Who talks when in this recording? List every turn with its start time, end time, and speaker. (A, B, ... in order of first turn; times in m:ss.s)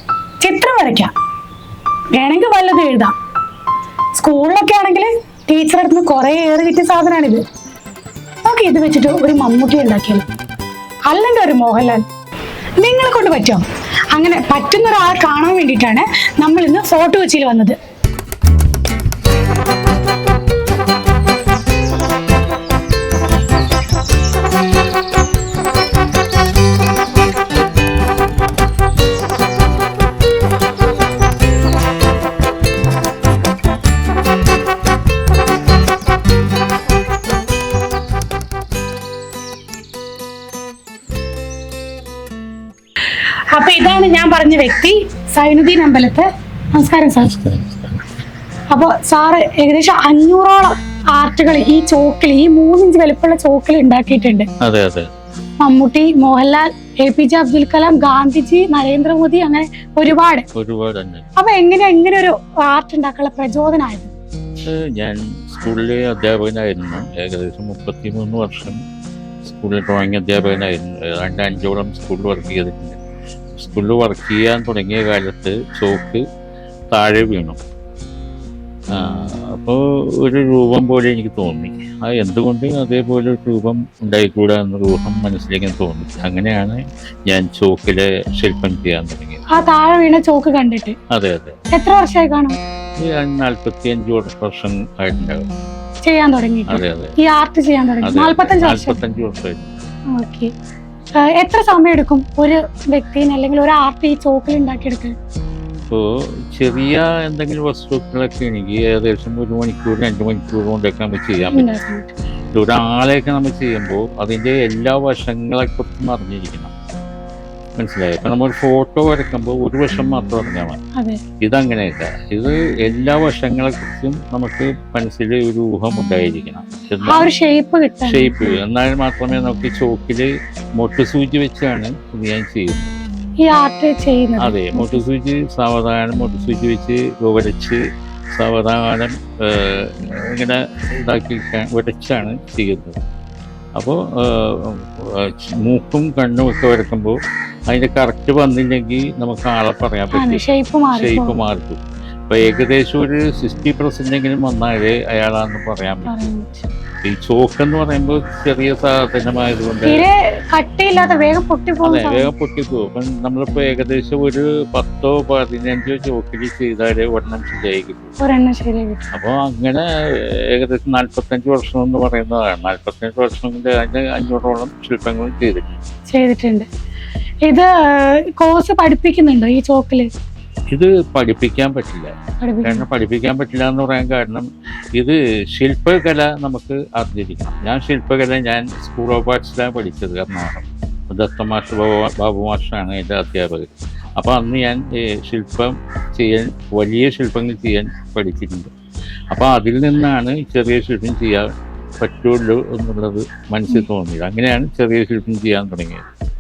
0:00.4-0:01.1 A
0:02.1-0:03.1 A
0:04.2-0:07.4 A
0:08.4-0:10.3 A
0:11.1-0:12.0 A
0:12.8-0:13.6 A
0:14.2-0:17.8 A
0:43.5-0:47.4 A
0:47.2-0:48.0 B
0:48.7-0:54.5 A
0:54.6-0:55.1 B
0:55.6-1:00.4 A
1:00.6-1:01.3 B
1:01.4-1:04.1 A
1:04.7-1:08.8 B
1:09.4-1:13.0 B
1:13.5-1:16.2 B
1:16.9-1:17.6 B
1:18.9-1:29.4 B
1:29.6-1:31.0 A
1:31.1-1:31.6 B
1:31.7-1:32.6 A
1:33.0-1:35.5 B
1:36.1-1:39.0 A
1:36.7-1:37.1 B
1:38.0-1:39.7 B
1:40.2-1:40.5 A
1:41.2-1:45.1 A
1:45.9-1:51.7 B
1:51.5-1:52.1 A
1:52.5-1:56.7 B
1:57.8-2:00.8 B
2:01.4-2:07.3 B
2:07.1-2:08.6 A
2:08.1-2:13.0 B
2:13.4-2:15.0 A
2:14.4-2:17.8 B
2:18.4-2:23.0 B
2:23.8-2:27.2 B
2:27.7-2:36.3 B
2:30.1-2:31.4 A
2:36.1-2:36.7 A
2:37.0-2:40.0 B
2:39.9-2:42.3 A
2:41.8-2:48.2 B
2:48.2-2:49.1 A
2:49.1-2:55.8 B
2:56.1-2:56.7 A
2:58.4-3:00.1 A
3:00.7-3:02.1 B
3:02.4-3:02.9 A
3:02.6-3:18.7 B
3:19.3-3:21.5 B
3:22.0-3:26.1 B